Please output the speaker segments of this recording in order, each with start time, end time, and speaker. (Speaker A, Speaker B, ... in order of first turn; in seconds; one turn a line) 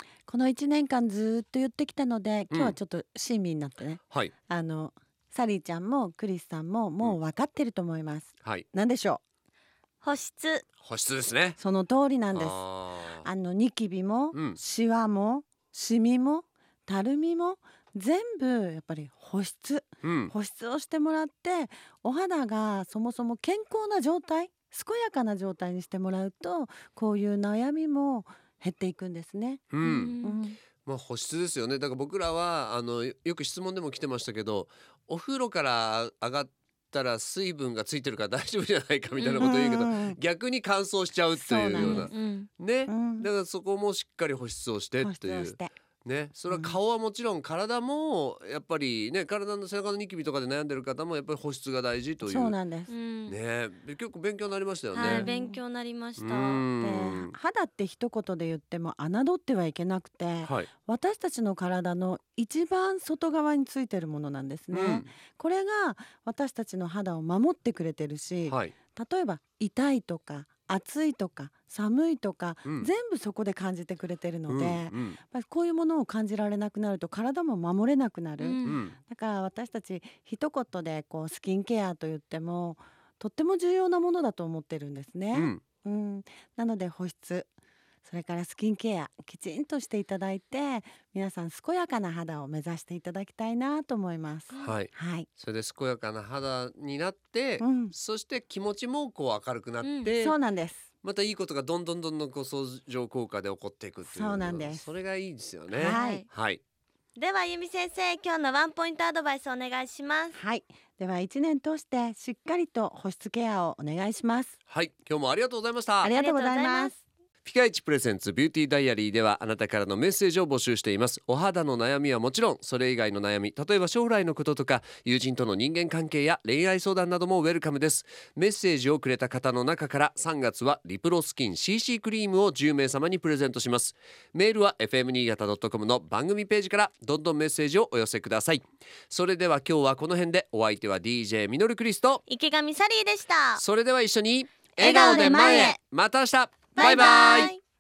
Speaker A: 0.3-9.2
Speaker B: 2.5-2.8
Speaker C: 10.0-10.6
Speaker B: 10.8-11.6
Speaker A: 11.6-12.6
Speaker B: 12.3-13.3
Speaker A: 13.2-29.7
Speaker B: 14.3-14.6
Speaker B: 20.0-20.3
Speaker B: 29.7-30.1
Speaker C: 29.8-30.5
Speaker A: 30.2-30.6
Speaker B: 30.8-52.6
Speaker C: 39.2-39.4
Speaker A: 39.4-40.2
Speaker A: 41.4-42.1
Speaker C: 41.8-42.5
Speaker A: 42.9-43.3
Speaker A: 45.0-45.7
Speaker A: 46.5-46.8
Speaker A: 52.2-52.9
Speaker C: 52.9-53.4
Speaker B: 53.3-55.3
Speaker C: 54.9-56.6
Speaker A: 55.0-55.6
Speaker B: 56.2-57.3
Speaker A: 56.8-87.5
Speaker B: 60.4-60.7
Speaker B: 64.7-65.1
Speaker B: 68.5-68.7
Speaker B: 74.5-75.2
Speaker C: 78.4-78.8
Speaker B: 78.7-79.0
Speaker B: 85.3-85.6
Speaker A: 88.1-95.3
Speaker B: 94.6-100.4
Speaker A: 97.6-97.9
Speaker C: 99.8-100.1
Speaker A: 100.2-100.9
Speaker B: 101.0-106.6
Speaker A: 104.1-104.9
Speaker A: 105.8-106.2
Speaker C: 105.8-106.3
Speaker C: 107.2-110.4
Speaker A: 110.3-114.6
Speaker B: 114.7-116.1
Speaker A: 116.0-117.0
Speaker C: 116.1-116.9
Speaker B: 117.4-142.2
Speaker C: 142.3-143.6
Speaker B: 143.6-147.6
Speaker C: 144.8-145.8
Speaker C: 146.8-147.6